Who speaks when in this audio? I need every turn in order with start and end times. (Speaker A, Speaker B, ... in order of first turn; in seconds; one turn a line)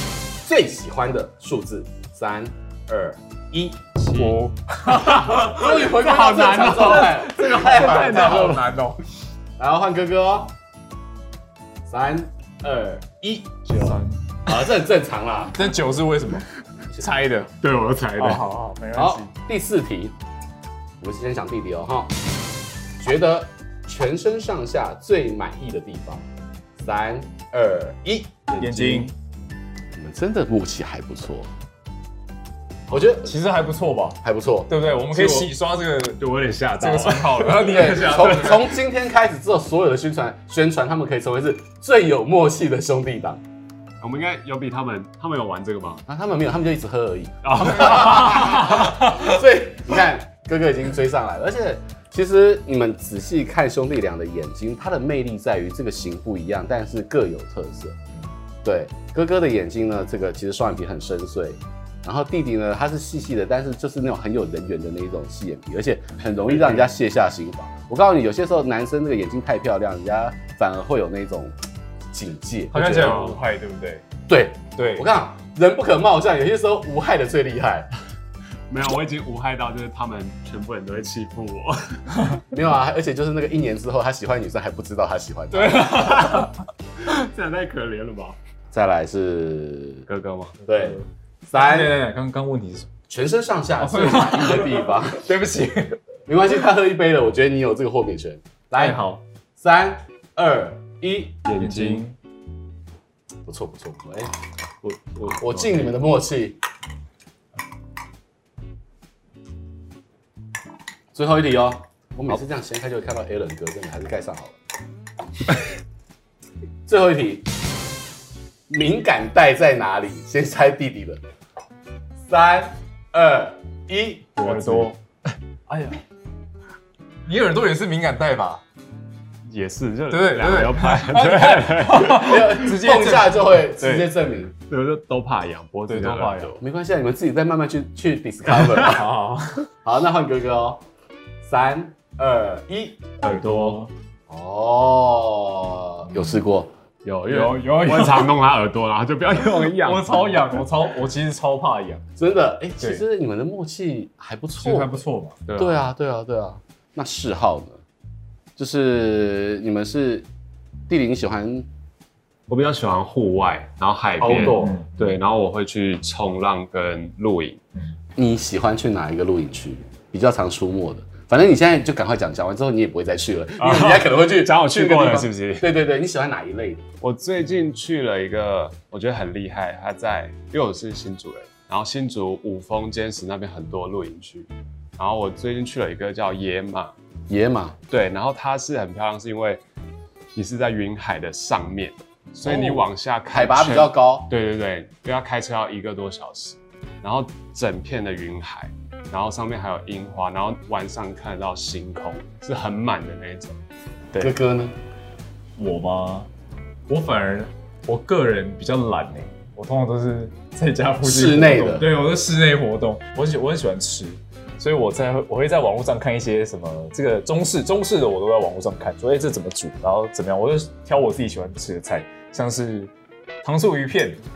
Speaker A: 0.4-3.9
Speaker B: 4.1-8.8
Speaker C: 4.1-5.8
Speaker A: 4.9-8.6
Speaker C: 6.8-9.0
Speaker A: 9.6-10.5
Speaker A: 11.9-13.9
Speaker C: 13.8-14.5
Speaker A: 14.5-15.6
Speaker C: 15.5-17.5
Speaker B: 17.6-18.4
Speaker C: 18.2-19.3
Speaker A: 18.9-20.1
Speaker A: 21.0-22.1
Speaker A: 23.0-26.3
Speaker A: 26.8-28.5
Speaker B: 28.5-29.1
Speaker C: 28.6-29.1
Speaker A: 29.9-31.5
Speaker A: 32.9-33.3
Speaker C: 33.2-38.7
Speaker A: 34.2-34.7
Speaker B: 35.1-35.5
Speaker B: 36.2-38.7
Speaker A: 37.5-43.4
Speaker B: 44.0-46.0
Speaker A: 46.1-58.0
Speaker B: 47.4-48.6
Speaker C: 47.9-49.2
Speaker A: 58.6-71.5
Speaker A: 72.1-73.2
Speaker C: 72.7-74.0
Speaker B: 72.9-73.4
Speaker A: 74.3-77.9
Speaker C: 74.8-75.1
Speaker B: 78.7-82.0
Speaker A: 82.5-86.2
Speaker C: 85.5-86.6
Speaker B: 85.8-88.4
Speaker A: 88.7-90.0
Speaker B: 90.1-90.6
Speaker A: 90.7-92.0
Speaker C: 90.7-92.9
Speaker A: 93.1-95.2
Speaker C: 93.8-96.0
Speaker A: 96.3-99.0
Speaker C: 98.8-99.2
Speaker A: 99.6-101.4
Speaker B: 101.5-102.0
Speaker C: 101.6-102.2
Speaker A: 103.5-104.3
Speaker C: 104.8-105.7
Speaker A: 105.3-106.6
Speaker A: 111.1-114.6
Speaker A: 116.9-117.5
Speaker A: 118.7-121.2
Speaker A: 122.3-124.5
Speaker B: 124.4-124.9
Speaker C: 124.4-125.0
Speaker C: 125.7-126.0
Speaker C: 127.3-128.6
Speaker B: 129.5-132.5
Speaker C: 130.1-134.1
Speaker A: 132.1-134.5
Speaker B: 134.6-136.6
Speaker C: 135.9-136.6
Speaker A: 136.6-139.1
Speaker C: 138.8-139.7
Speaker A: 139.8-140.8
Speaker A: 141.4-143.8
Speaker C: 143.2-143.9
Speaker A: 144.3-146.7
Speaker C: 146.1-146.4
Speaker B: 147.1-150.4
Speaker C: 147.3-148.3
Speaker C: 149.4-152.0
Speaker A: 152.2-155.0
Speaker C: 154.6-155.4
Speaker B: 155.5-155.8
Speaker A: 155.6-157.8
Speaker A: 158.6-160.3
Speaker A: 160.9-161.7
Speaker B: 162.5-167.6
Speaker A: 164.2-164.8
Speaker C: 164.2-165.2
Speaker A: 168.2-176.8
Speaker B: 173.6-175.7
Speaker B: 177.0-186.9
Speaker A: 187.3-187.8
Speaker B: 187.9-189.6
Speaker B: 190.3-203.6
Speaker A: 192.4-194.3
Speaker A: 204.2-204.8
Speaker C: 205.6-206.3
Speaker C: 206.9-224.2
Speaker A: 211.0-211.9